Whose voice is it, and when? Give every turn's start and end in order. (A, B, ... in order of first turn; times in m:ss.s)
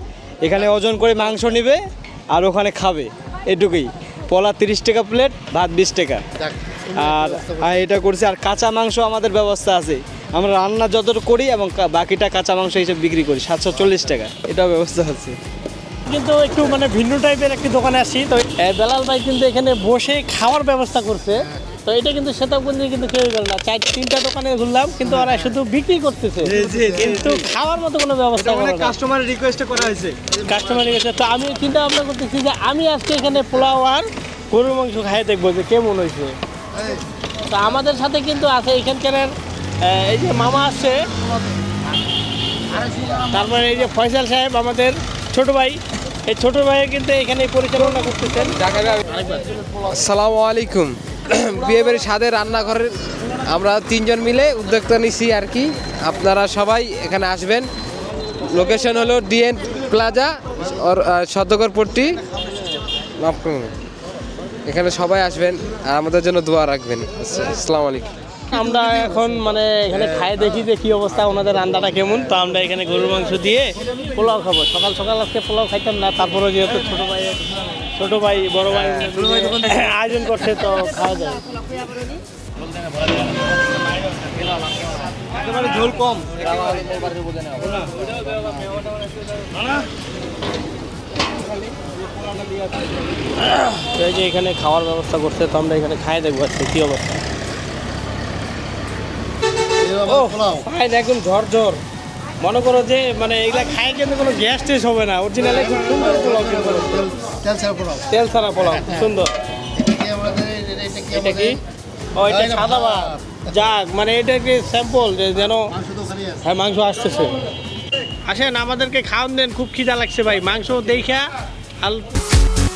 0:00.4-0:06.2 A
0:06.4-0:08.0 B
0:07.0-0:15.4 A
0:16.1-0:28.9 C
0:26.4-0:27.2 B
0:26.5-0:27.4 A
0:28.4-0:30.2 A
0:30.4-0:30.7 B
0:30.5-0:36.3 C
0:36.8-0:37.0 B
0:37.5-0:39.3 C
0:39.8-0:41.0 C
0:43.3-0:49.4 C
0:48.6-0:49.0 D
0:49.9-0:52.9 D
0:53.5-0:57.7 D
0:58.5-1:02.2 D
1:03.2-1:03.7 D
1:04.7-1:08.1 D
1:08.5-1:17.4 C
1:08.6-1:09.3 B
1:18.0-1:21.4 C
1:19.1-1:19.8 B
1:25.6-1:26.2 A
1:33.5-1:37.0 C
1:39.8-1:40.6 B
1:40.1-1:41.8 C
1:42.4-1:47.1 C
1:45.4-1:49.2 B
1:48.1-1:49.3 C
1:49.8-1:51.6 B
1:51.1-1:51.6 C
1:52.2-1:55.7 C
1:52.2-1:53.5 B
1:55.5-1:56.4 B
1:56.4-1:57.4 C
1:58.3-2:01.3 C
2:01.8-2:02.1 C